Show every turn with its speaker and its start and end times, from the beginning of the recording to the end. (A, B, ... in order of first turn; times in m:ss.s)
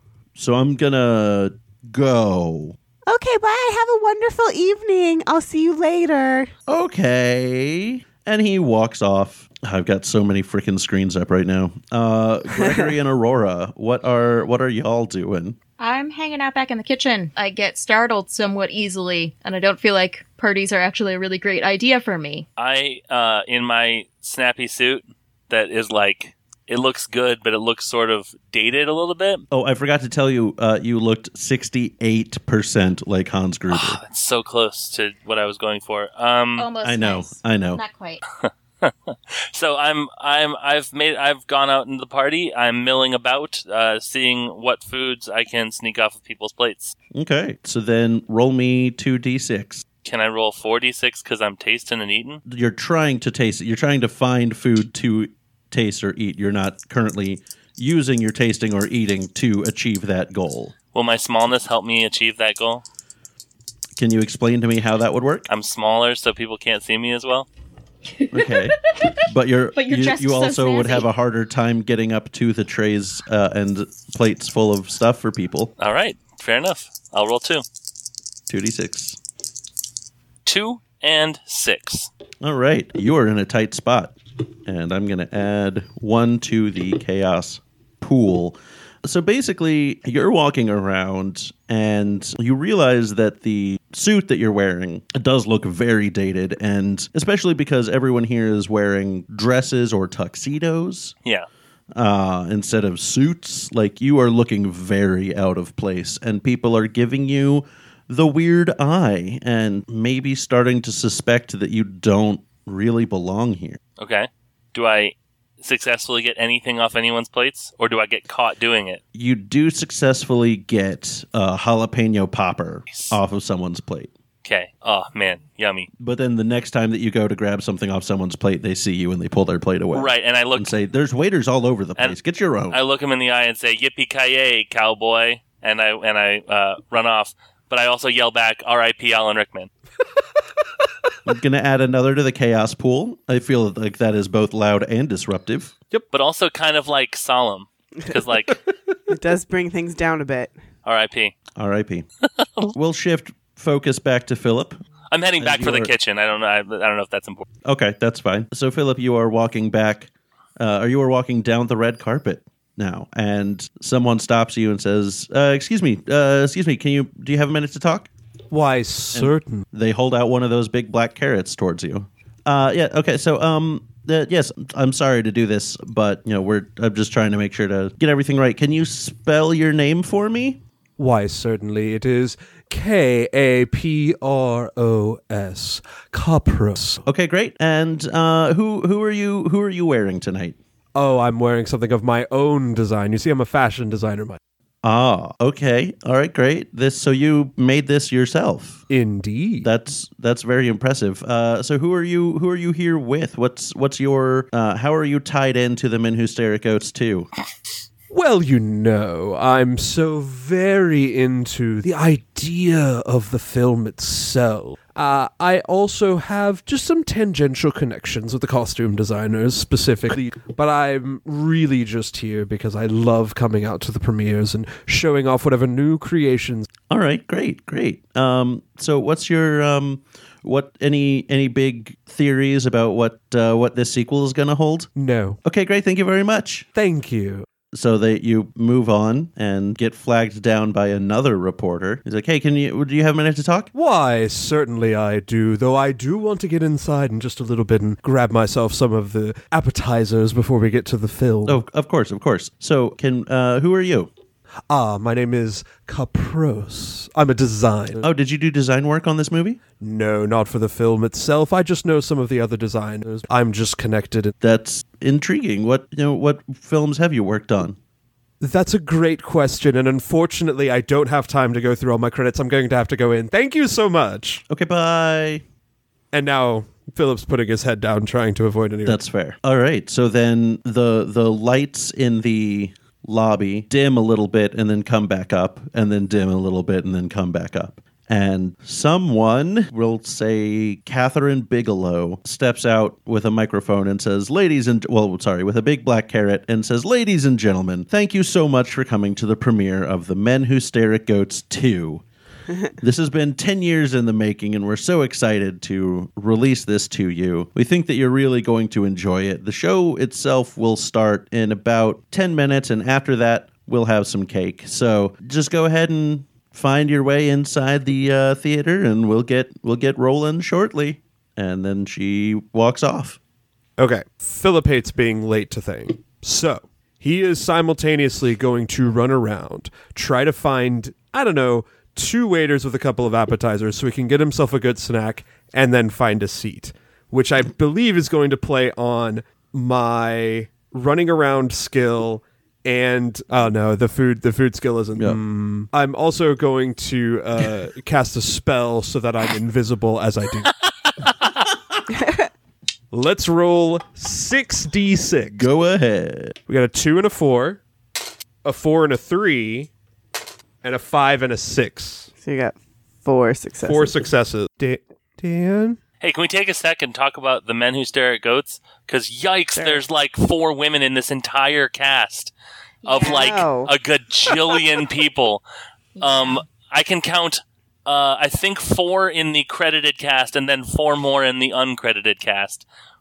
0:00.4-0:02.8 A
0:03.1-0:06.5 B
0:06.7-0:15.6 A
0:12.6-0:12.9 B
0:15.8-0:22.5 C
0:22.6-0:29.4 D
0:29.5-0:34.0 A
0:33.7-0:36.7 D
0:36.6-0:38.2 C
0:36.8-0:37.8 A
0:38.4-0:46.9 D
0:47.1-0:49.8 A
0:50.0-0:52.4 D
0:52.5-1:00.7 A
1:00.9-1:02.8 D
1:04.0-1:05.5 A
1:05.5-1:07.5 D
1:08.2-1:09.2 C
1:08.3-1:15.7 A
1:09.8-1:11.1 C
1:15.8-1:17.6 D
1:18.5-1:19.2 A
1:20.4-1:22.1 D
1:22.4-1:41.2 A
1:41.9-1:53.8 A
1:54.0-1:59.0 D
1:59.1-2:04.1 A
2:02.9-2:03.2 D
2:04.4-2:05.9 D
2:06.0-2:12.8 A
2:09.9-2:10.8 D
2:12.7-2:19.7 D
2:21.3-2:25.7 A
2:26.1-2:28.6 D
2:29.1-2:30.5 B
2:30.8-2:31.3 D
2:31.6-2:32.1 A
2:32.4-2:32.7 D
2:32.7-2:34.8 A
2:35.1-2:37.4 D
2:35.4-2:35.9 A
2:37.6-2:48.1 A
2:48.5-2:49.6 E
2:49.1-3:00.6 A
3:01.0-3:07.0 E
3:07.0-3:10.6 A
3:11.0-3:14.4 E
3:14.8-3:18.9 A
3:18.9-3:19.7 E
3:19.6-3:27.3 A
3:28.1-3:46.7 E
3:46.9-3:54.9 A
3:55.0-3:55.4 E
3:55.4-3:56.7 A
3:56.7-3:57.5 E
3:57.7-4:03.7 A
4:03.7-4:11.6 E
4:11.5-4:14.1 A
4:14.7-4:18.1 E
4:18.0-4:19.6 A
4:19.8-4:24.4 E
4:24.4-4:27.8 A
4:28.4-4:34.4 E
4:34.5-4:35.4 A
4:36.1-4:39.0 E
4:38.8-5:02.0 A
5:02.8-5:23.2 A
5:23.8-5:50.5 E
5:51.9-5:52.3 B
5:52.9-5:55.5 E
5:55.4-5:56.4 A
5:56.5-5:57.6 E
5:58.4-5:59.7 E
6:00.6-6:02.1 E
6:02.2-6:04.1 B
6:03.6-6:05.8 E
6:06.0-6:12.3 D
6:09.6-6:09.8 B
6:12.8-6:13.4 C
6:12.8-6:15.4 D
6:13.0-6:13.7 B
6:16.0-6:16.4 C
6:16.0-6:22.6 D